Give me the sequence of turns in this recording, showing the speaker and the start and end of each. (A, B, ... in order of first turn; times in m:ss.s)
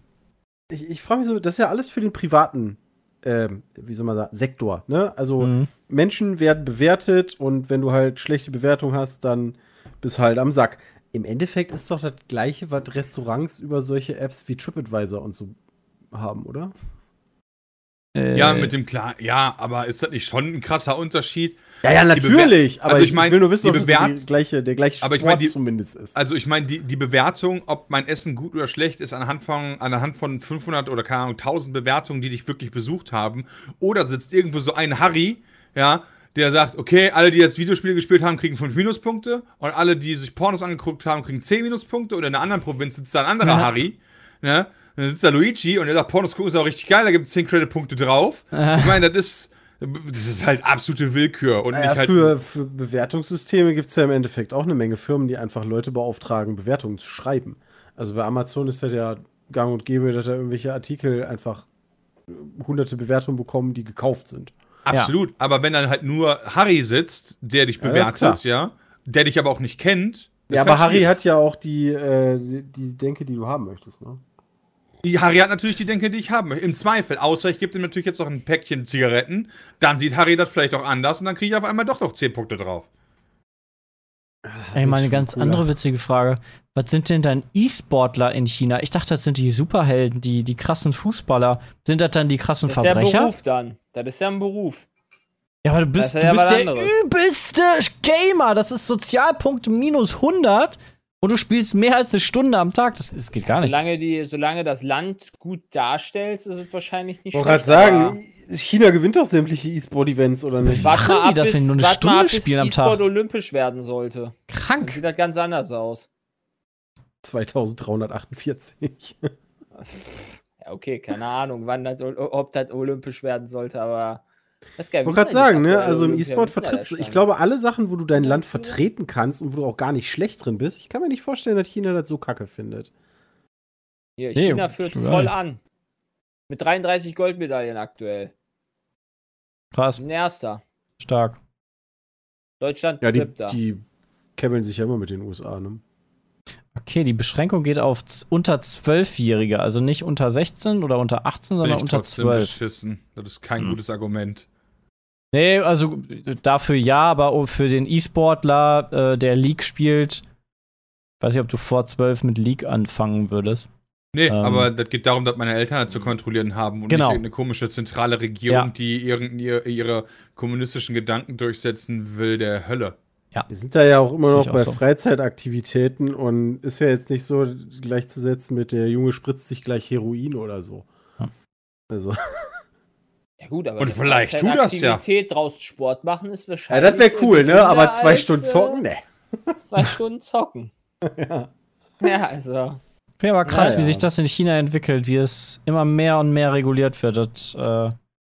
0:00.7-0:15.6 A
0:05.4-0:05.7 B
0:16.1-0:16.7 A
0:18.2-0:18.7 B
0:18.4-0:21.6 C
0:21.8-0:26.2 A
0:22.1-0:24.2 C
0:25.0-0:25.5 C
0:26.2-0:52.3 C
0:43.4-0:43.7 B
0:48.5-0:49.0 B
0:51.7-1:01.7 A
1:02.3-1:04.5 A
1:04.9-1:11.1 C
1:07.8-1:08.4 A
1:10.5-1:14.2 A
1:15.0-1:22.9 C
1:24.4-1:25.7 A
1:24.7-1:33.3 B
1:32.7-1:34.9 D
1:35.6-1:43.8 B
1:36.0-1:36.9 D
1:43.4-1:48.2 D
1:47.3-1:50.9 A
1:50.7-1:53.0 B
1:50.8-1:56.1 D
1:54.5-1:55.0 B
1:57.2-1:59.3 A
1:59.8-2:04.2 D
2:04.8-2:07.2 D
2:05.0-2:12.9 A
2:08.2-2:08.8 D
2:14.2-2:15.6 D
2:14.4-2:15.3 B
2:16.5-2:18.3 D
2:19.7-2:20.0 B
2:20.0-2:20.6 D
2:21.0-2:21.4 B
2:22.6-2:23.6 D
2:23.0-2:23.8 A
2:24.4-2:25.8 A
2:26.8-2:32.5 B
2:31.6-2:34.5 C
2:35.3-2:40.2 B
2:41.2-2:43.7 B
2:44.1-2:53.0 C
2:44.3-2:44.7 B
2:46.9-2:47.2 B
2:53.5-3:00.9 A
2:54.2-2:54.8 B
3:01.9-3:02.2 A
3:03.4-3:08.8 D
3:03.8-3:05.0 C
3:06.7-3:09.6 A
3:09.7-3:10.7 D
3:11.0-3:11.5 A
3:12.0-3:12.8 D
3:13.2-3:18.0 B
3:13.5-3:13.8 D
3:13.5-3:14.1 A